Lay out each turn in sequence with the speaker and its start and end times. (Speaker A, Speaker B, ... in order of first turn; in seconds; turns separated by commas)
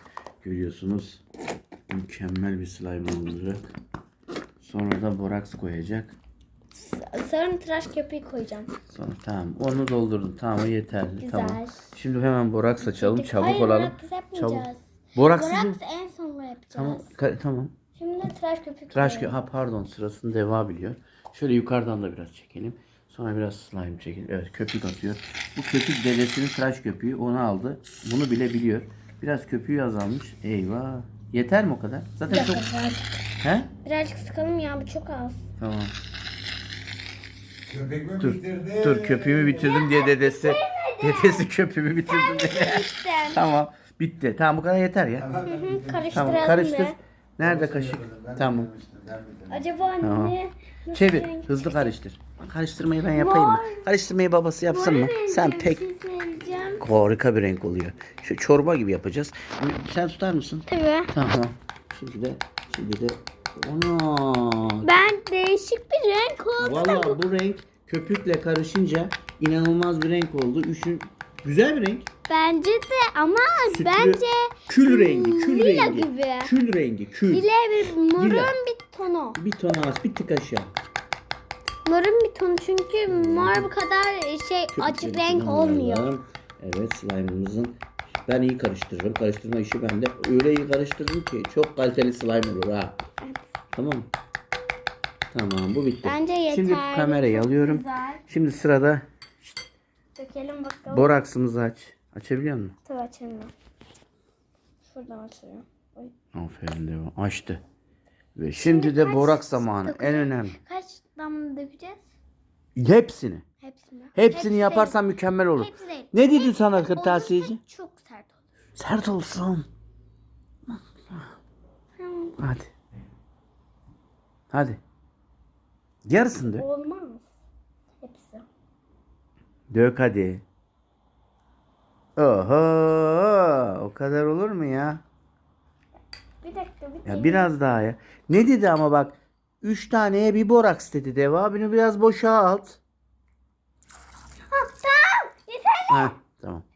Speaker A: 0.4-1.2, Speaker A: 1.9-3.7, Speaker A: 4.6-6.2, Speaker B: 6.8-8.7, Speaker A: 8.9-15.8, Speaker B: 11.2-11.9, Speaker B: 12.8-17.1, Speaker A: 16.8-17.7, Speaker B: 18.0-19.4, Speaker A: 18.9-32.6, Speaker B: 32.3-33.2, Speaker A: 33.4-33.7, Speaker B: 33.8-35.4, Speaker A: 35.6-35.9, Speaker C: 37.7-39.4, Speaker A: 38.2-45.4, Speaker B: 39.5-41.5, Speaker B: 42.1-43.4, Speaker B: 45.4-47.0, Speaker A: 46.1-48.8, Speaker C: 48.1-49.5, Speaker B: 49.5-51.9, Speaker A: 50.0-50.4, Speaker A: 50.9-55.8, Speaker B: 53.1-53.9, Speaker B: 54.7-56.9, Speaker A: 56.8-64.9, Speaker B: 60.7-61.1, Speaker B: 64.8-67.2, Speaker A: 66.6-72.1, Speaker B: 72.3-76.5, Speaker A: 73.7-77.5, Speaker B: 77.3-79.4, Speaker A: 78.2-78.5, Speaker A: 79.4-80.7, Speaker B: 81.8-86.1, Speaker A: 83.1-83.7, Speaker A: 84.7-93.0, Speaker A: 93.7-94.1, Speaker A: 95.3-99.0, Speaker B: 96.0-98.2, Speaker B: 100.2-101.2, Speaker A: 100.9-102.7, Speaker B: 102.8-103.5, Speaker B: 104.9-106.1, Speaker A: 106.3-107.6, Speaker A: 108.4-110.6, Speaker B: 108.6-112.0, Speaker A: 112.8-113.5, Speaker B: 113.6-115.0, Speaker A: 114.2-117.6, Speaker B: 115.6-118.4, Speaker A: 118.8-119.7, Speaker A: 120.7-121.3, Speaker B: 122.0-122.4, Speaker A: 122.4-122.7, Speaker A: 124.5-124.8, Speaker A: 126.0-126.7, Speaker B: 126.4-127.3, Speaker B: 128.0-128.5, Speaker A: 129.7-130.4, Speaker A: 132.2-135.0, Speaker B: 136.4-137.5, Speaker A: 137.1-142.8, Speaker B: 144.5-146.2, Speaker A: 145.9-146.7